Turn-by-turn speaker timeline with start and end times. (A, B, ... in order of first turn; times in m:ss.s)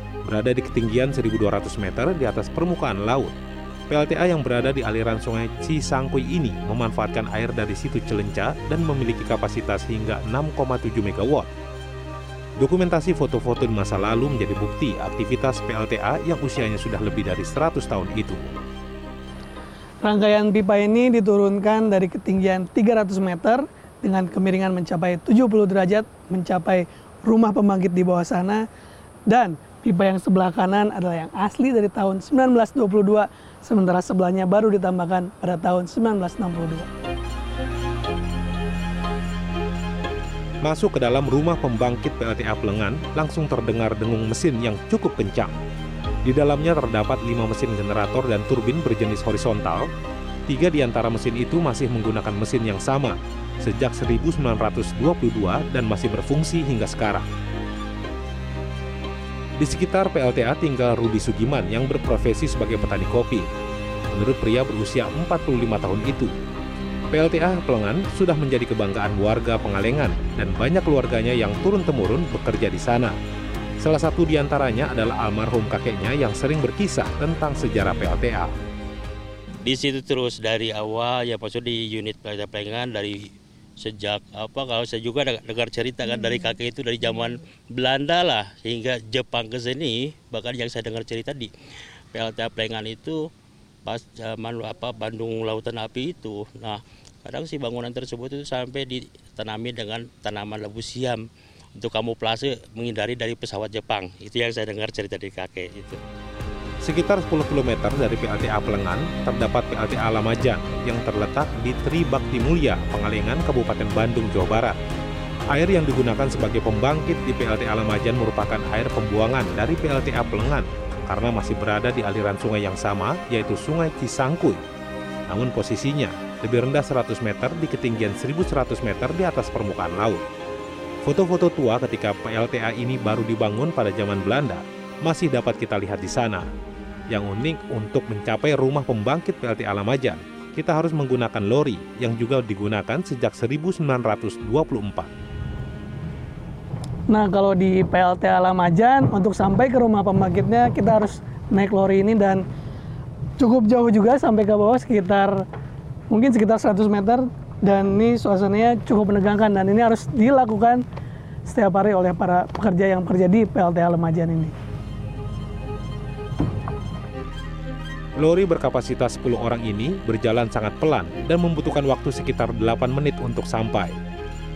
0:00.2-0:03.4 A
0:03.9-0:11.5 A
0:12.6-0:18.5 A
0:20.0-0:28.6 B
0:29.3-0:36.9 B
0:40.6-0:45.6 A
0:46.2-0:49.9 A
0:50.5-0:57.3 A
0:59.6-1:03.5 A
1:04.1-1:06.3 A
1:07.1-1:13.2 A
1:13.8-1:18.6 A
1:19.6-1:31.5 C
1:32.1-1:33.2 C
1:33.9-1:41.2 C
1:41.8-1:46.0 C
1:46.8-1:54.8 A
1:55.5-2:04.6 A
2:05.3-2:10.3 A
2:11.0-2:16.5 A
2:17.1-2:25.1 A
2:27.1-2:32.4 B
2:33.4-2:35.4 B
2:36.1-2:40.8 B
2:41.5-2:44.6 B
2:48.2-2:54.0 A